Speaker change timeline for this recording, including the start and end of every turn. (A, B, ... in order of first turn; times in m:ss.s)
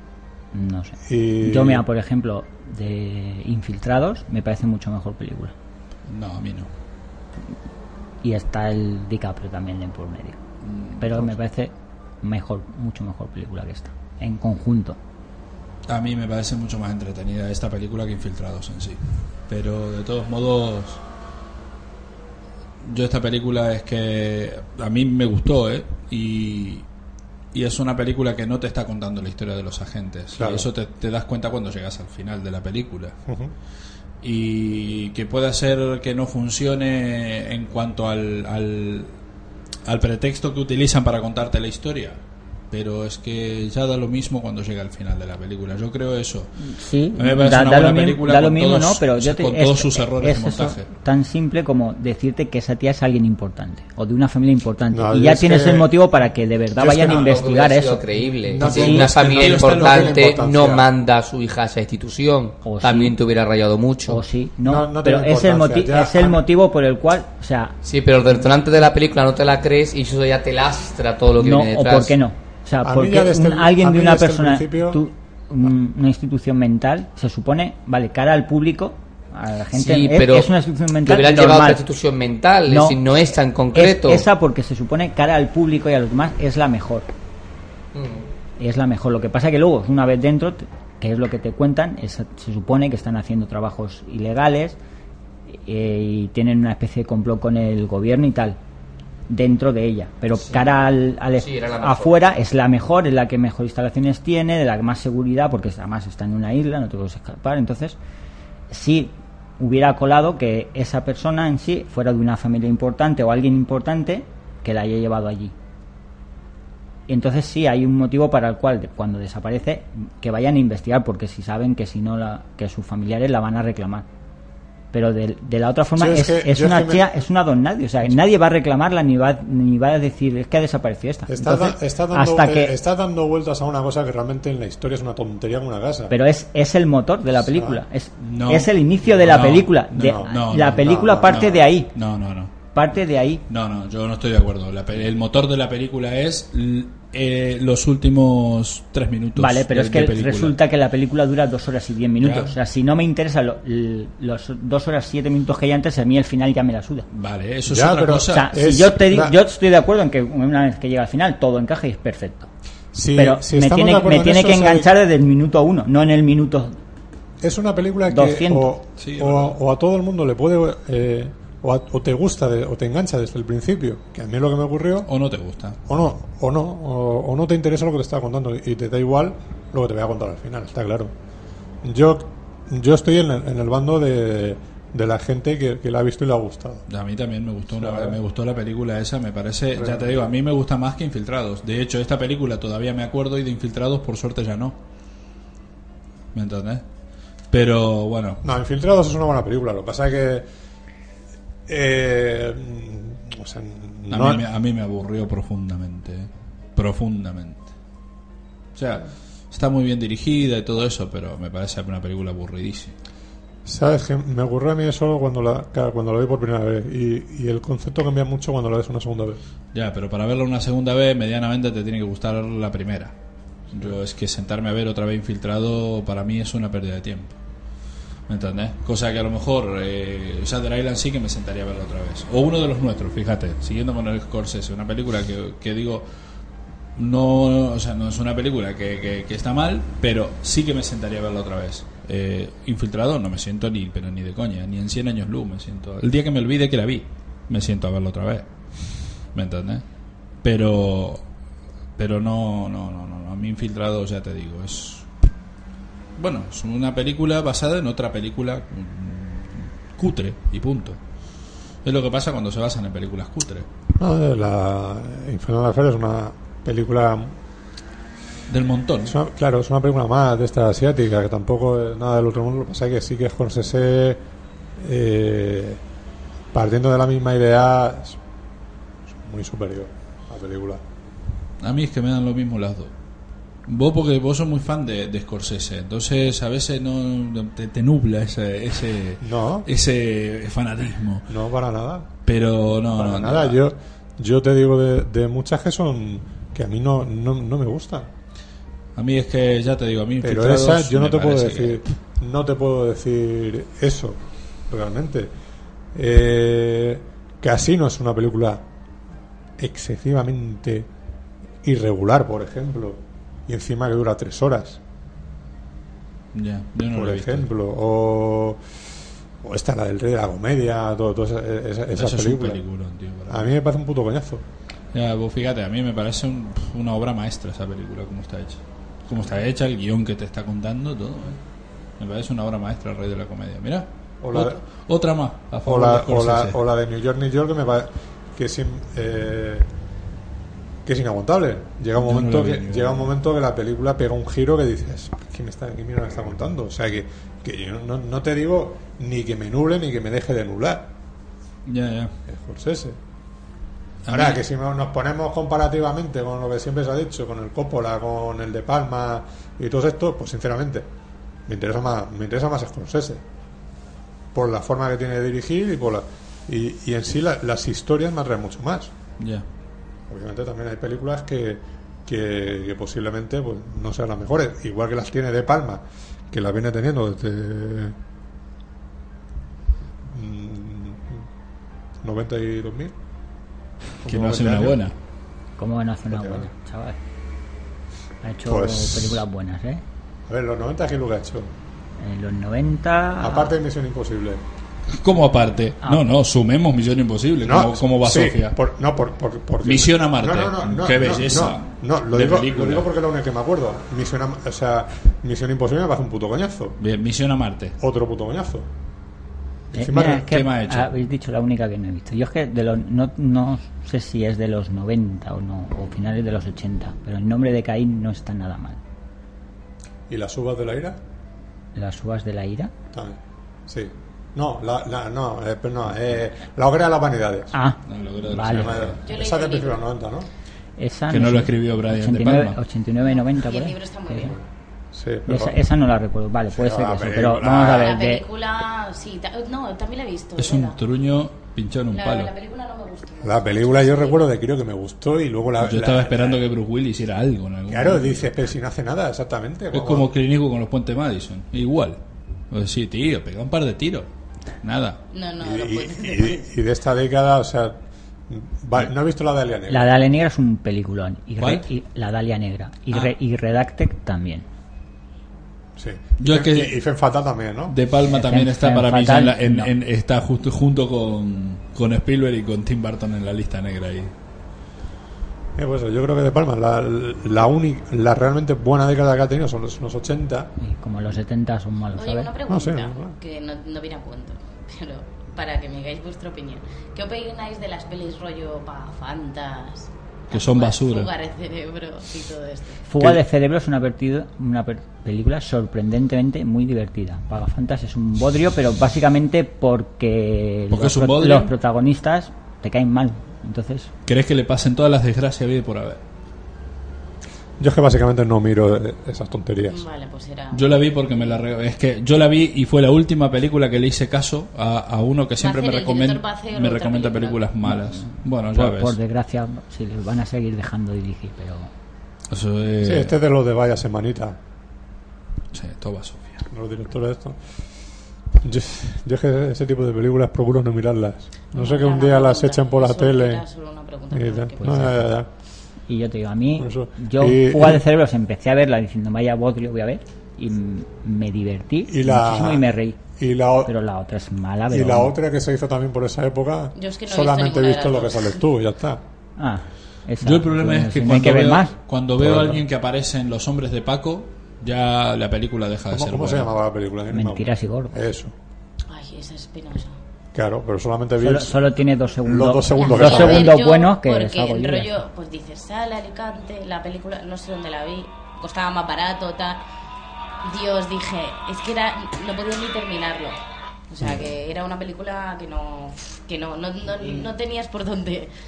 0:00.5-0:05.5 A
0:01.1-0:01.8 B
0:06.1-0:06.7 C
0:08.2-0:10.4 A
0:10.6-0:11.3 C
0:11.0-0:15.0 A
0:15.9-0:21.0 C
0:22.8-0:26.8 C
0:27.5-0:33.1 C
0:30.4-0:30.7 B
0:33.3-0:33.5 B
0:34.2-0:39.1 C
0:39.8-0:42.2 C
0:42.7-0:46.6 C
0:46.6-0:59.0 A
0:47.1-0:50.9 C
0:54.9-0:55.9 B
0:56.7-0:57.4 B
0:56.9-1:04.2 D
0:58.4-1:00.9 B
0:58.6-1:00.3 C
1:02.6-1:03.2 A
1:04.1-1:07.7 A
1:04.6-1:06.4 B
1:07.8-1:12.1 D
1:11.4-1:21.8 A
1:12.8-1:15.0 B
1:19.7-1:24.2 D
1:22.7-1:23.0 A
1:23.7-1:27.1 A
1:27.9-1:28.3 D
1:28.6-1:34.8 A
1:35.5-1:38.6 A
1:39.3-1:48.0 A
1:40.3-1:42.2 D
1:48.7-1:55.5 A
1:57.1-2:04.0 A
2:04.9-2:12.7 A
2:06.0-2:07.1 B
2:11.3-2:16.1 B
2:16.1-2:21.9 A
2:17.4-2:17.8 B
2:18.2-2:22.5 C
2:19.9-2:21.5 B
2:22.7-2:23.4 A
2:23.5-2:30.6 C
2:29.4-2:37.1 A
2:32.2-2:32.5 C
2:37.1-2:38.5 C
2:37.7-2:39.4 B
2:38.3-2:42.5 A
2:42.9-2:44.9 B
2:43.2-2:46.8 A
2:47.4-2:55.1 B
2:48.1-2:48.7 A
2:49.0-2:49.5 C
2:55.1-2:55.8 C
2:55.8-3:01.1 B
3:01.8-3:06.8 B
3:06.9-3:14.8 C
3:07.7-3:08.2 B
3:09.7-3:10.2 B
3:16.3-3:16.8 C
3:17.5-3:18.4 C
3:18.4-3:20.5 B
3:21.7-3:24.4 B
3:24.1-3:27.7 C
3:28.7-3:32.9 C
3:33.6-3:39.4 B
3:39.7-3:43.1 C
3:43.7-3:47.3 C
3:48.3-3:56.1 C
3:57.0-4:09.8 C
4:10.4-4:11.2 C
4:12.0-4:15.1 C
4:16.2-4:21.0 C
4:21.8-4:23.7 C
4:24.0-4:27.3 B
4:28.5-4:29.2 C
4:29.0-4:34.2 B
4:34.8-4:35.8 B
4:36.5-4:38.2 B
4:39.1-4:40.8 B
4:41.6-4:42.9 C
4:43.7-4:51.3 C
4:49.2-4:49.7 B
4:51.3-4:52.1 B
4:52.2-4:53.6 C
4:52.9-4:58.1 B
4:59.0-5:01.8 C
5:00.2-5:05.3 B
5:05.9-5:08.6 B
5:09.6-5:10.9 B
5:11.6-5:14.8 B
5:16.3-5:17.5 C
5:16.9-5:18.6 B
5:19.4-5:22.6 B
5:21.9-5:23.5 C
5:23.3-5:24.4 B
5:24.9-5:31.4 C
5:32.0-5:36.6 C
5:34.2-5:34.6 B
5:35.6-5:39.7 B
5:40.8-5:50.9 B
5:42.0-5:43.1 C
5:51.6-5:52.2 C
5:52.3-5:53.0 B
5:54.0-5:54.4 C
5:54.1-6:00.9 B
6:01.5-6:03.2 B
6:04.3-6:08.9 B
6:09.2-6:09.4 C
6:10.1-6:18.0 B
6:20.1-6:21.2 B
6:22.0-6:22.9 B
6:24.0-6:24.8 B
6:24.0-6:24.9 C
6:25.6-6:27.0 A
6:26.1-6:26.5 B
6:28.2-6:29.8 A
6:28.4-6:29.2 B
6:30.3-6:31.5 B
6:32.0-6:33.5 A
6:33.2-6:34.4 B
6:34.9-6:38.6 C
6:35.8-6:36.1 A
6:37.4-6:46.8 B
6:39.6-6:42.9 C
6:46.8-6:47.8 C
6:47.8-6:48.7 B
6:49.7-6:50.3 B
6:49.7-6:58.8 A
6:50.0-6:50.9 C
7:00.1-7:01.0 B
7:01.8-7:02.7 A
7:02.9-7:07.5 B
7:07.5-7:08.7 A
7:07.9-7:09.0 C
7:08.5-7:10.3 B
7:09.0-7:09.8 E
7:10.8-7:14.4 A
7:11.1-7:12.6 C
7:13.0-7:14.4 E
7:14.9-7:15.6 B
7:15.3-7:18.2 A
7:16.5-7:18.0 B
7:17.6-7:20.8 E
7:20.4-7:22.3 C
7:21.9-7:24.3 E
7:23.2-7:26.4 B
7:25.6-7:28.3 C
7:27.7-7:30.1 B
7:29.7-7:32.0 C
7:32.5-7:34.1 C
7:34.6-7:35.0 C
7:35.1-7:36.4 E
7:35.4-7:39.9 B
7:39.7-7:44.4 A
7:41.4-7:41.6 C
7:45.8-7:47.8 B
7:46.2-7:46.8 C
7:47.7-7:54.1 C
7:48.1-7:49.7 A
7:55.6-8:00.5 B
8:00.6-8:02.3 A
8:01.9-8:12.8 E
8:02.5-8:03.1 B
8:10.3-8:11.1 C
8:12.9-8:23.9 A
8:20.7-8:21.5 C
8:24.0-8:26.0 C
8:27.6-8:29.8 B
8:29.7-8:31.4 E
8:30.5-8:39.0 C
8:35.4-8:37.4 E
8:37.7-8:41.7 A
8:42.3-8:43.2 C
8:42.8-8:44.4 B
8:45.5-8:46.4 C
8:46.5-8:47.4 B
8:48.4-8:53.4 B
8:51.5-8:55.0 E
8:54.1-8:55.3 B
8:54.6-8:54.9 A
8:55.9-9:03.0 A
8:56.6-8:57.8 B
9:01.8-9:03.7 B
9:03.6-9:05.1 A
9:04.7-9:09.0 B
9:06.8-9:08.4 E
9:09.4-9:11.7 A
9:10.2-9:16.5 C
9:12.2-9:12.6 B
9:15.9-9:18.3 B
9:17.1-9:18.0 A
9:18.9-9:19.9 E
9:20.3-9:21.6 B
9:21.2-9:24.9 A
9:22.2-9:23.5 B
9:22.8-9:29.6 E
9:30.4-9:33.4 E
9:33.9-9:38.3 E